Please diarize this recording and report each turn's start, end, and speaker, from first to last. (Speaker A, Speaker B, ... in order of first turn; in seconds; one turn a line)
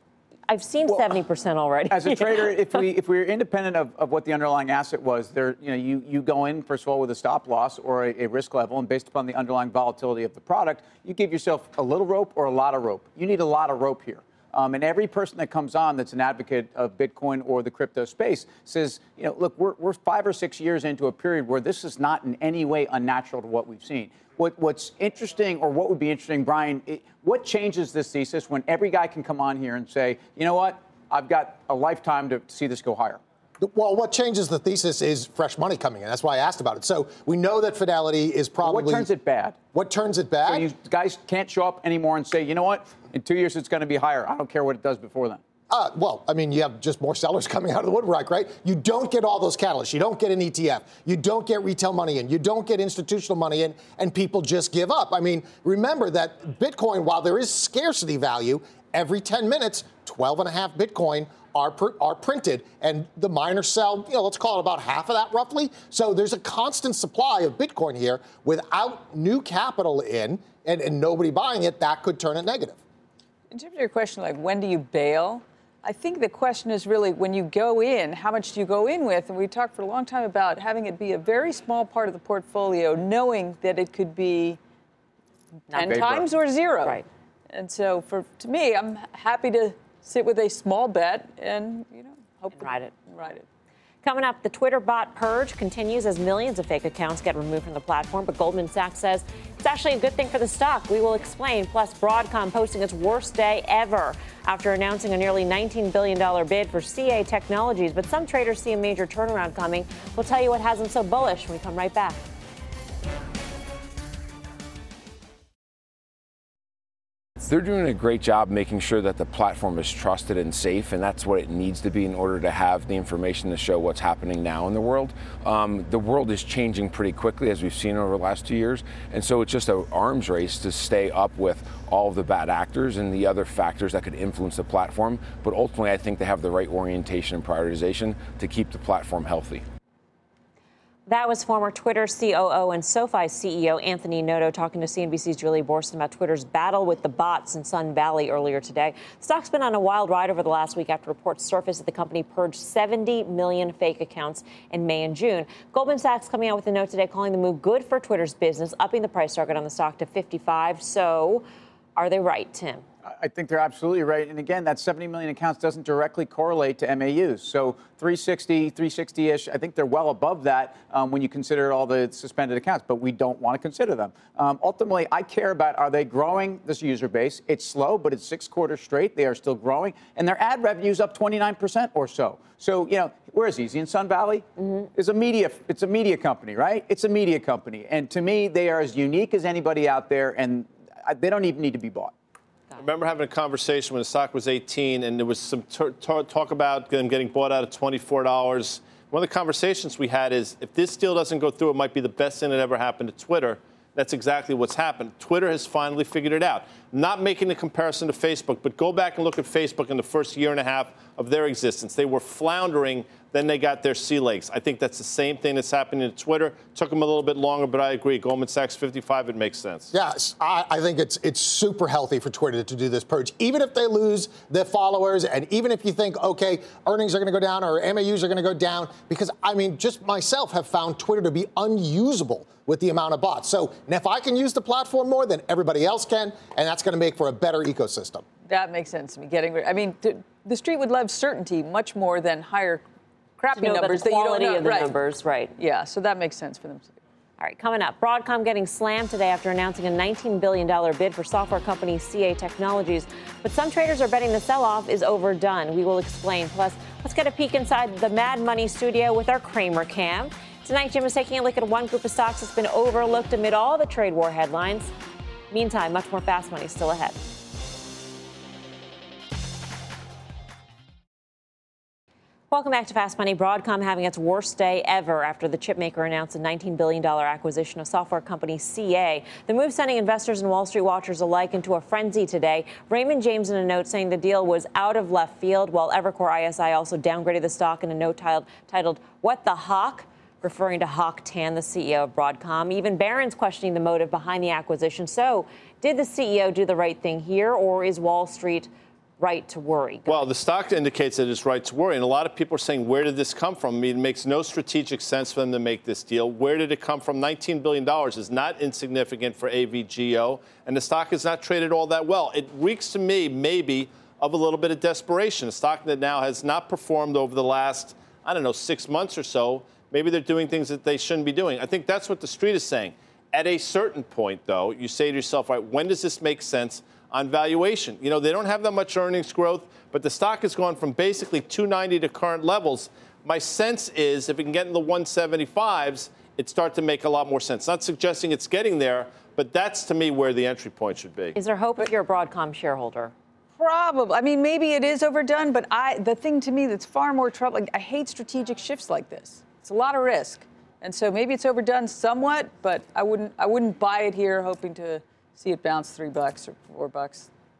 Speaker A: 0.5-2.5
Speaker B: 1.9-33.2
Speaker C: 33.6-39.1
Speaker B: 38.6-39.6
Speaker C: 39.7-40.7
Speaker B: 40.5-45.4
Speaker C: 45.7-72.8
Speaker D: 73.5-84.6
Speaker A: 85.7-86.2
Speaker D: 85.7-87.0
Speaker B: 85.8-86.3
Speaker D: 87.5-93.4
Speaker A: 92.5-92.9
Speaker A: 94.0-112.2
Speaker E: 117.4-139.6
Speaker A: 141.1-161.4
Speaker A: 161.9-162.8
Speaker B: 163.1-192.1
Speaker F: 192.8-219.9
Speaker C: 219.9-238.2
Speaker D: 238.5-242.8
Speaker D: 243.4-244.9
Speaker A: 243.5-245.5
Speaker D: 245.6-246.9
Speaker A: 247.4-264.9
Speaker A: 265.5-267.2
Speaker A: 272.5-300.2
Speaker F: 300.1-341.3
Speaker A: 341.3-343.1
Speaker D: 343.6-357.3